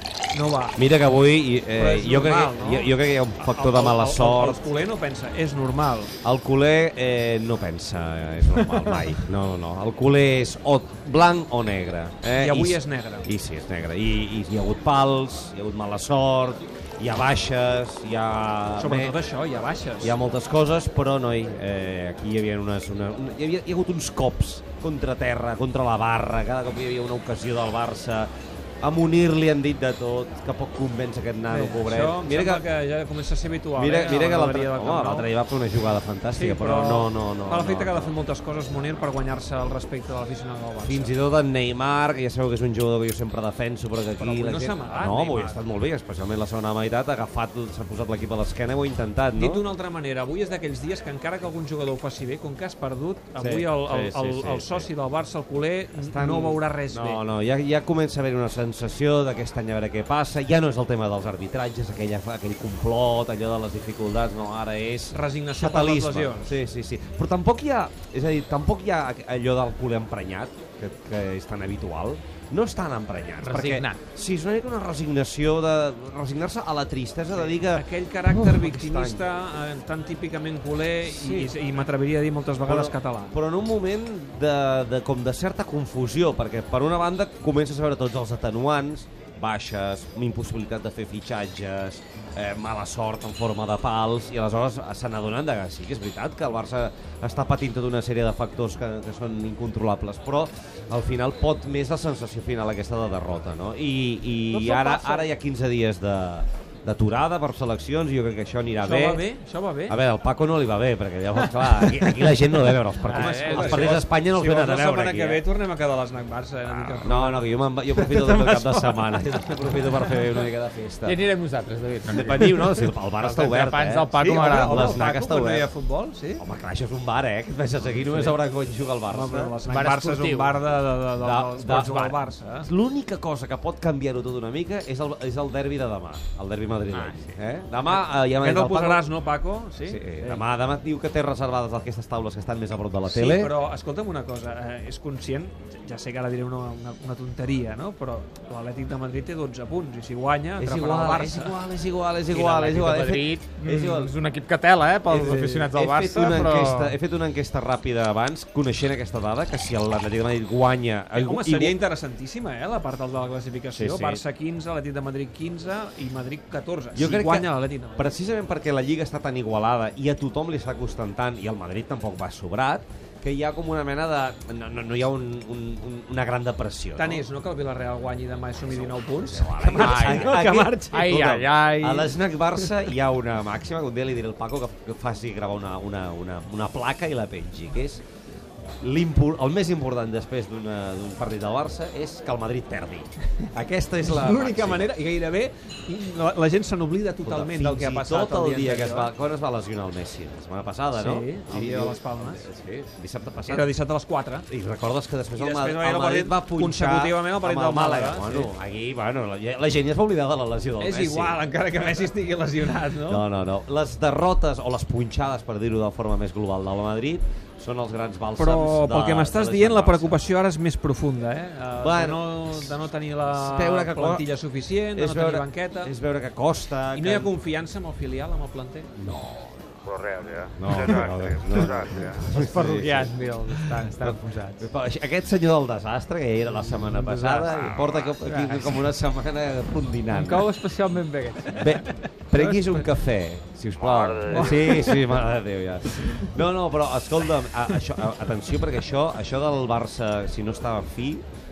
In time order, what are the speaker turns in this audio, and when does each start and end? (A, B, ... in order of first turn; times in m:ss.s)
0:00.3-0:00.8 A
0:00.8-0:04.6 B
0:01.7-0:06.1 A
0:06.2-0:19.2 B
0:12.3-0:13.3 A
0:18.8-0:20.2 A
0:20.0-0:28.3 B
0:28.8-0:32.6 B
0:31.5-0:35.3 A
0:33.8-0:38.1 B
0:36.3-0:41.1 A
0:40.8-0:49.6 B
0:44.2-0:45.6 A
0:49.3-0:57.2 A
0:53.4-0:54.9 B
0:56.0-1:19.2 B
1:05.1-1:06.5 A
1:13.4-1:14.0 C
1:17.3-1:23.3 A
1:21.0-1:21.6 B
1:22.6-1:49.2 B
1:44.5-1:45.3 C
1:48.8-1:50.0 A
1:49.9-1:55.4 B
1:53.0-1:59.2 A
1:53.1-1:53.9 C
1:56.7-2:01.2 B
2:01.0-2:05.0 C
2:02.1-2:05.7 B
2:04.1-2:06.4 A
2:06.4-2:09.5 B
2:07.9-2:08.4 A
2:09.1-2:12.7 A
2:09.7-2:10.6 C
2:11.2-2:19.1 B
2:16.9-2:17.4 C
2:17.8-2:20.4 A
2:19.8-2:23.5 B
2:23.0-2:31.6 A
2:30.6-2:34.2 B
2:32.2-2:33.3 A
2:33.0-2:37.0 C
2:35.1-2:41.8 B
2:35.1-2:35.6 A
2:41.1-2:48.1 A
2:43.7-2:44.2 B
2:46.9-2:57.2 B
2:57.0-3:00.6 A
2:58.6-3:08.0 B
2:59.7-3:02.2 C
3:08.8-3:14.9 B
3:14.0-3:19.1 A
3:17.2-3:23.8 B
3:20.9-3:22.4 A
3:23.4-3:24.5 A
3:24.5-3:31.4 B
3:25.4-3:28.5 A
3:30.8-3:33.2 A
3:33.0-3:40.2 B
3:38.4-3:45.9 A
3:41.8-3:44.2 B
3:44.9-3:47.3 B
3:46.9-3:48.9 A
3:49.0-3:49.9 B
3:49.8-3:52.3 D
3:50.6-4:00.5 B
3:52.3-3:54.6 C
3:56.8-3:58.7 C
4:00.1-4:01.8 C
4:01.5-4:11.2 B
4:02.3-4:02.8 C
4:03.8-4:04.8 D
4:04.6-4:05.0 C